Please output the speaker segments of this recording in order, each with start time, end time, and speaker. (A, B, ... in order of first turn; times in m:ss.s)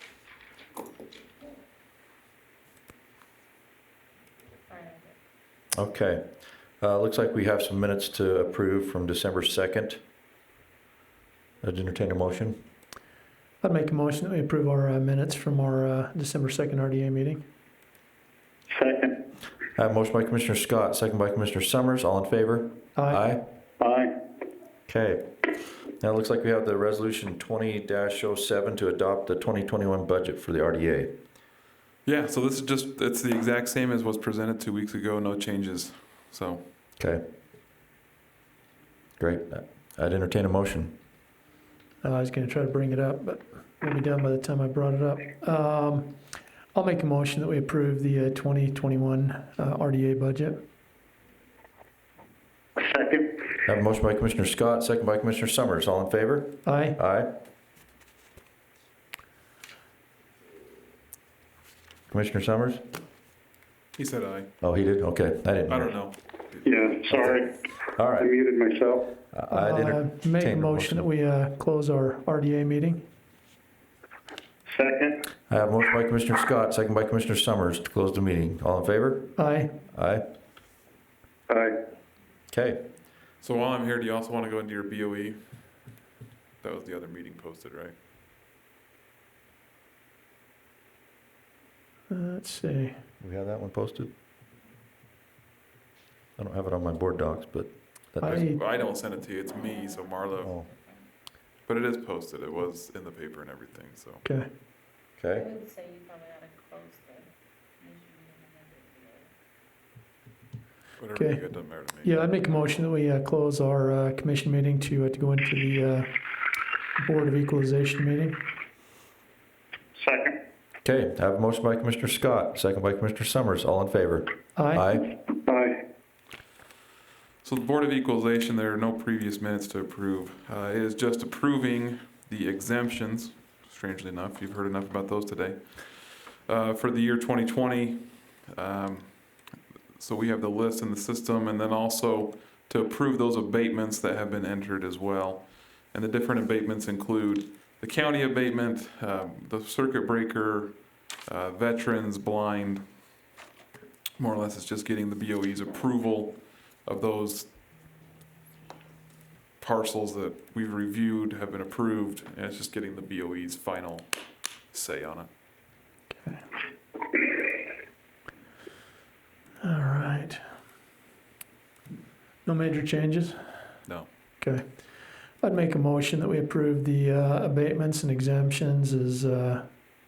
0:04.6-0:05.2 A
0:05.7-0:06.3 B
0:06.8-0:10.0 B
0:11.6-0:12.6 B
0:13.6-0:17.4 C
0:18.7-0:19.2 D
0:19.8-0:23.4 B
0:23.0-0:23.2 C
0:23.8-0:24.1 D
0:24.9-0:25.3 B
0:26.0-0:31.2 B
0:32.1-0:36.6 E
0:39.2-0:41.0 B
0:42.0-0:46.2 C
0:46.7-0:50.6 C
0:52.8-0:53.3 D
0:53.7-0:57.3 B
0:56.6-0:57.0 C
1:02.1-1:02.8 B
1:04.0-1:04.5 E
1:04.6-1:05.9 B
1:05.7-1:06.7 E
1:06.6-1:09.1 D
1:07.1-1:07.4 B
1:07.9-1:08.3 B
1:09.3-1:11.0 B
1:09.5-1:13.0 C
1:14.7-1:15.2 D
1:15.5-1:19.3 B
1:19.4-1:19.7 C
1:19.9-1:20.2 B
1:21.5-1:21.7 D
1:22.5-1:22.8 B
1:23.4-1:25.4 E
1:26.6-1:28.0 E
1:32.1-1:32.9 C
1:33.2-1:34.1 B
1:36.4-1:38.5 B
1:38.2-1:38.6 C
1:38.4-1:40.5 E
1:39.6-1:41.0 A
1:41.7-1:44.2 E
1:44.2-1:44.5 C
1:45.2-1:45.5 B
1:45.3-1:49.3 A
1:51.0-1:52.1 E
1:51.2-1:56.1 C
1:57.0-1:58.4 C
2:00.0-2:00.4 D
2:00.8-2:05.1 B
2:04.6-2:04.9 C
2:05.5-2:05.8 D
2:07.4-2:19.4 E
2:20.0-2:32.9 E
2:34.2-2:37.5 E
2:39.6-2:44.1 E
2:44.7-2:45.3 E
2:49.6-2:50.4 C
2:52.5-2:53.4 C
2:55.4-2:59.6 C